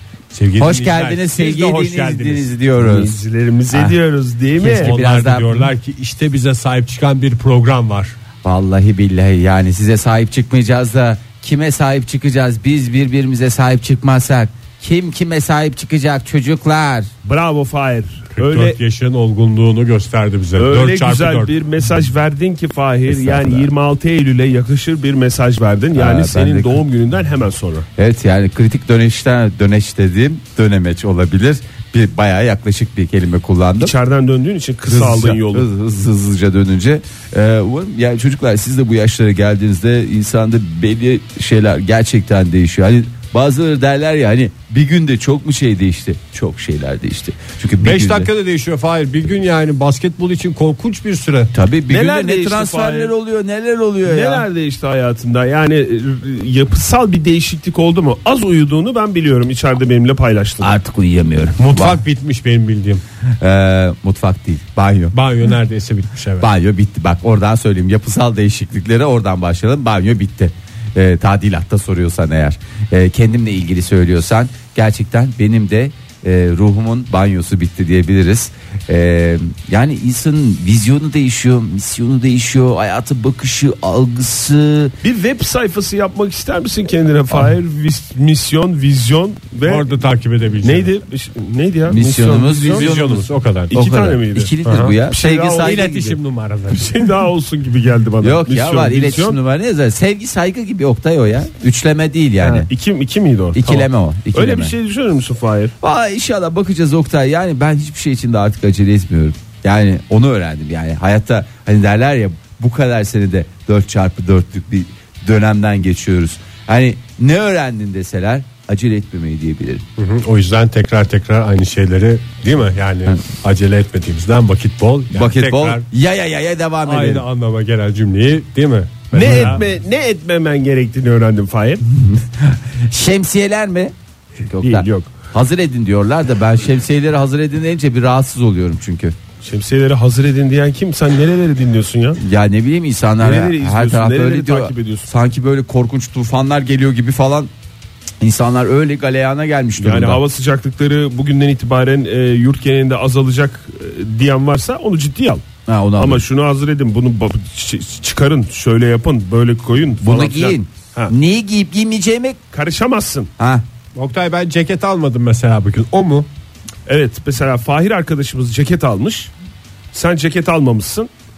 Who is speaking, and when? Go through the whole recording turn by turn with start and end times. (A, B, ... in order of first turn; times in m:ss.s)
0:00.3-0:02.4 A
0:00.6-0:03.2 B
0:02.8-0:04.9 C
0:04.6-0:05.7 B
0:04.8-0:08.1 A
0:08.4-0:17.1 B
0:17.2-0:18.8 C
0:18.3-0:21.5 A
0:20.6-0:27.9 C
0:23.1-0:23.7 B
0:25.9-0:26.8 B
0:28.0-0:33.9 B
0:33.8-0:35.7 C
0:34.9-0:48.3 B
0:47.8-0:51.5 A
0:51.5-0:54.4 B
0:51.9-0:53.1 C
0:54.0-1:00.7 C
1:00.6-1:02.0 B
1:01.6-1:03.0 A
1:03.4-1:05.2 B
1:05.1-1:06.5 A
1:06.4-1:24.9 B
1:25.0-1:30.0 C
1:29.6-1:30.9 A
1:30.6-1:32.9 C
1:31.9-1:35.9 B
1:32.6-1:33.7 A
1:33.7-1:36.2 C
1:35.6-1:37.1 A
1:36.7-1:39.4 C
1:38.2-1:42.7 B
1:42.4-1:45.7 C
1:43.5-1:44.7 B
1:45.8-1:59.8 B
2:00.0-2:05.8 A
2:05.1-2:07.2 B
2:06.8-2:09.7 A
2:09.1-2:11.8 C
2:11.9-2:19.1 B
2:14.6-2:15.1 C
2:19.4-2:22.2 C
2:22.2-2:27.5 B
2:23.2-2:25.1 C
2:28.2-2:30.2 B
2:29.8-2:35.4 C
2:35.7-2:36.2 B
2:36.0-2:41.1 C
2:40.0-2:42.4 B
2:42.5-2:43.3 C
2:43.4-2:43.6 B
2:44.0-2:46.3 A
2:46.9-2:49.3 C
2:49.9-2:51.1 C